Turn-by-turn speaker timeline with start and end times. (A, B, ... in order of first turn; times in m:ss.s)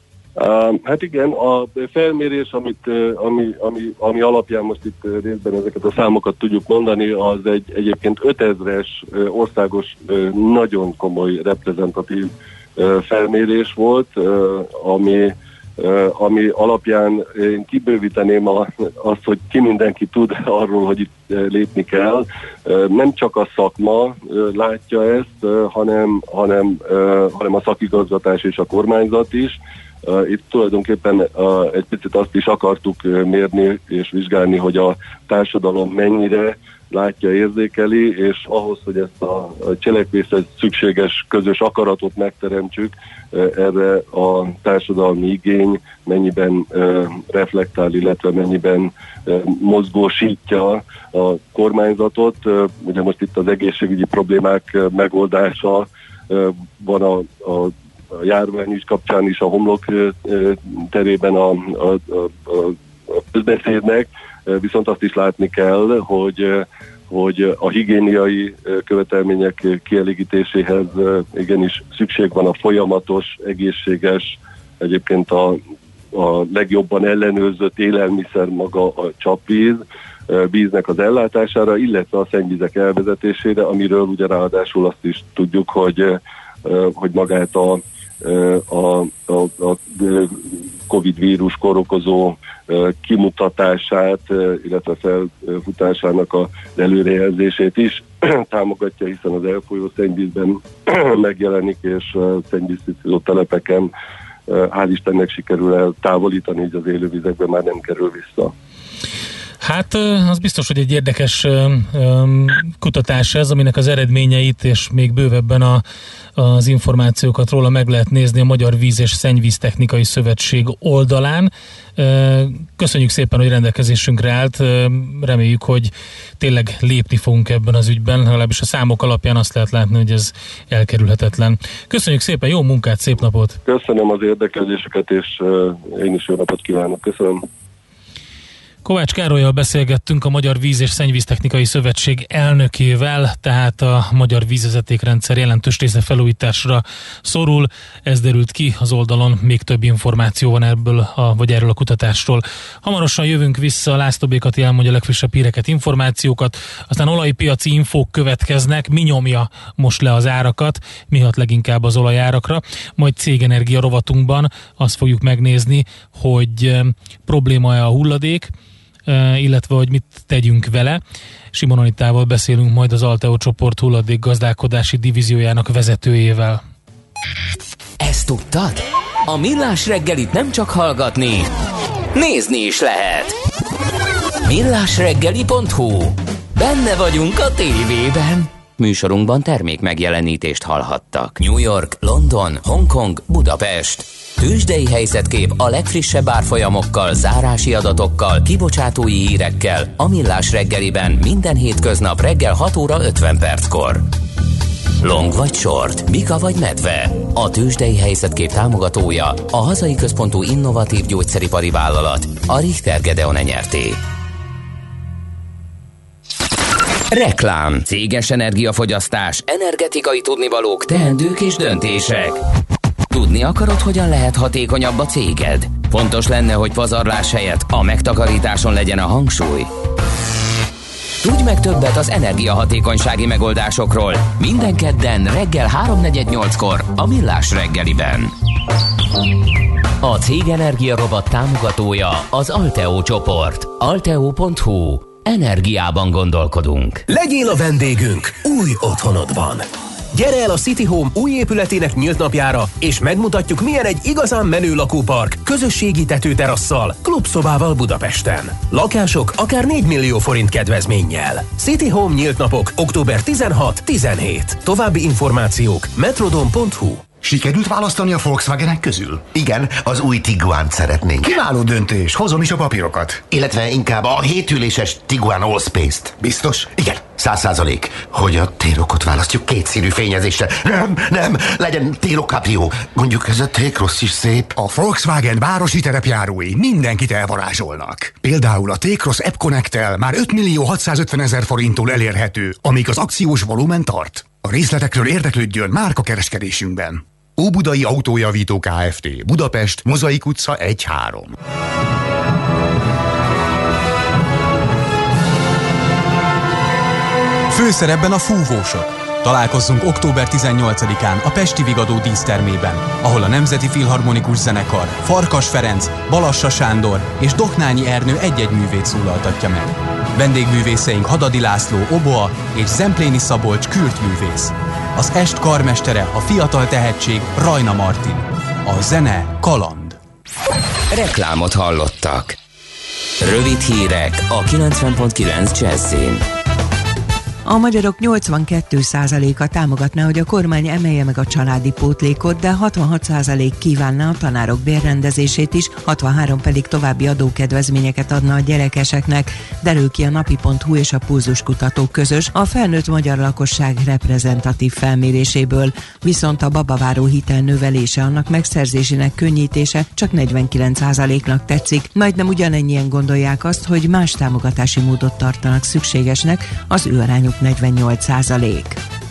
0:00.4-1:15.6 A
1:16.1-1:43.9 A
1:44.5-1:48.5 A
1:49.6-1:55.8 B
1:56.4-2:13.6 B
2:13.6-2:17.4 A
2:18.8-2:48.5 B
2:49.1-2:51.0 B
2:51.5-2:56.6 B
2:58.0-3:01.5 C
3:02.1-3:03.4 C
3:04.4-3:24.1 C
3:25.0-3:34.0 C
3:37.1-3:42.4 C
3:43.1-3:49.7 C
3:51.2-3:58.3 C
4:00.0-4:07.0 C
4:07.1-4:09.6 D
4:10.1-4:27.0 D
4:27.2-4:29.3 E
4:29.2-4:31.3 F
4:31.2-4:33.2 E
4:33.3-4:44.6 F
4:44.6-5:01.3 E
5:07.5-5:30.0 G
5:30.9-5:32.4 C
5:33.2-5:36.2 C
5:37.4-6:08.8 H